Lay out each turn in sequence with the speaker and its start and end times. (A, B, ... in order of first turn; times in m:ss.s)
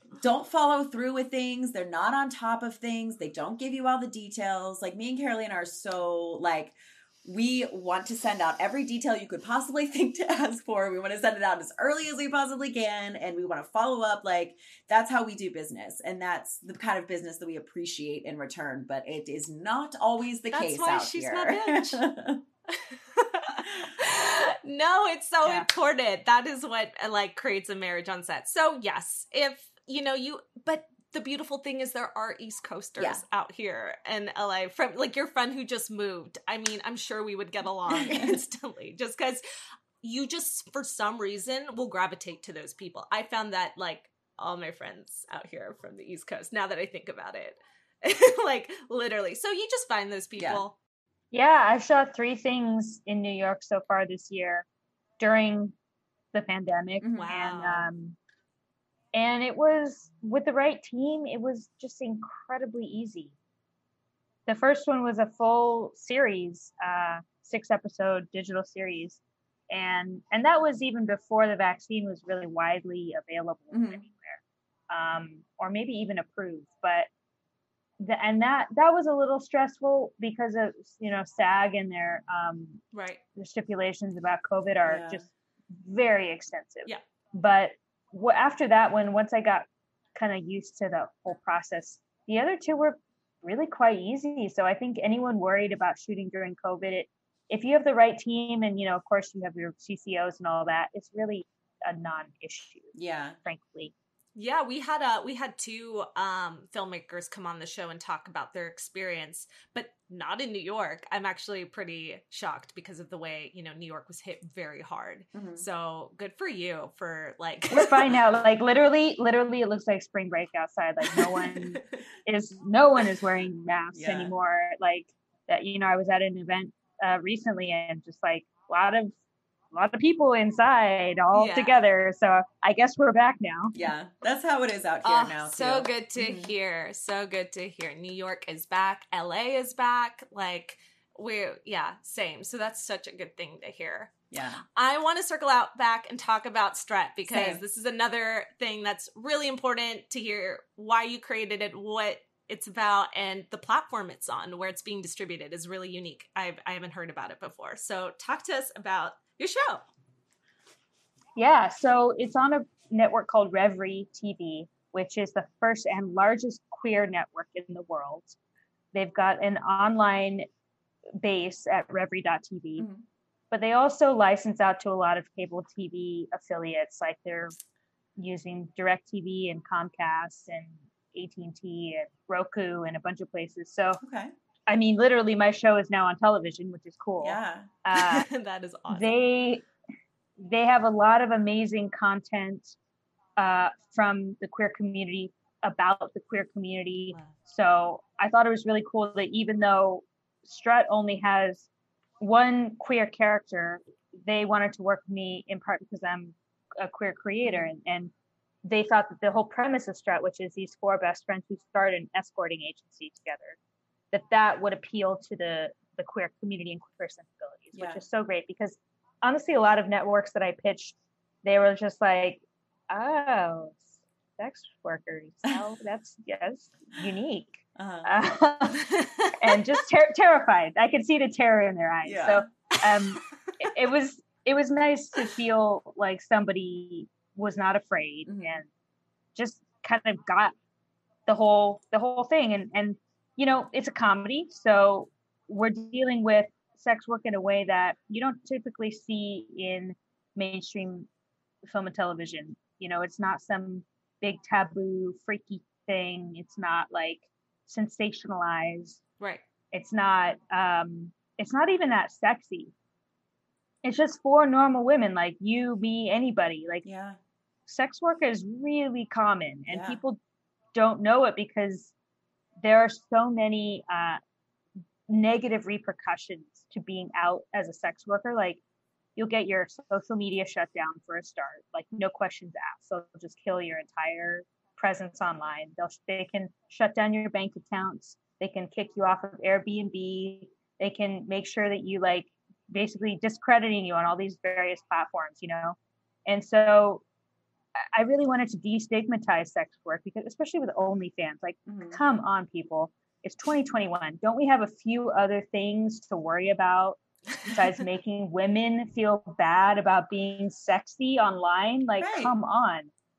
0:00.1-0:22.4 A
0:20.5-0:22.0 B
0:22.7-0:39.4 B
0:33.0-0:33.2 A
0:37.9-0:38.4 A
0:40.0-0:50.8 B
0:50.4-0:50.6 A
0:51.3-0:54.6 C
0:55.2-0:55.7 C
0:56.3-0:58.2 C
0:57.0-0:57.3 A
0:57.2-0:57.9 B
0:59.1-1:03.3 C
1:04.5-1:09.2 C
1:09.7-1:17.1 C
1:13.7-1:14.0 A
1:18.0-1:22.8 C
1:22.9-1:23.2 B
1:23.4-1:25.2 C
1:24.8-1:25.2 A
1:25.7-1:42.9 C
1:42.9-1:43.4 A
1:43.4-1:43.9 C
1:44.3-1:58.1 B
1:55.3-1:55.7 A
1:57.7-2:09.1 C
2:01.1-2:01.9 B
2:03.9-2:04.3 A
2:09.7-2:13.7 C
2:11.3-2:11.8 B
2:13.7-2:16.5 A
2:15.0-2:24.1 B
2:24.3-2:24.6 A
2:24.8-2:39.8 B
2:27.3-2:27.6 A
2:41.4-2:48.4 C
2:48.9-2:50.5 C
2:51.2-2:52.9 C
2:52.8-2:53.0 A
2:53.5-2:57.5 C
2:58.2-3:04.0 C
3:04.0-3:04.3 A
3:04.7-3:08.2 C
3:07.2-3:07.7 A
3:07.9-3:09.2 B
3:08.9-3:09.6 C
3:10.4-3:12.7 C
3:13.4-3:21.7 C
3:22.2-3:28.1 C
3:27.4-3:27.7 A
3:28.6-3:33.6 C
3:34.1-3:58.7 C
3:37.7-3:38.0 A
3:47.8-3:48.1 A
3:48.8-3:49.4 B
3:52.0-3:52.5 A
3:58.2-3:58.6 A
3:59.3-4:00.5 C
4:01.3-4:11.1 C
4:11.7-4:19.0 C
4:19.7-4:22.7 C
4:23.8-4:26.8 C
4:26.8-4:27.2 A
4:27.7-4:30.2 C
4:29.7-4:30.0 A
4:30.7-4:31.9 C
4:32.6-4:34.2 C
4:35.1-4:38.6 C
4:39.2-4:57.0 C
4:57.9-5:12.9 C
5:01.7-5:02.0 A
5:12.0-5:12.3 A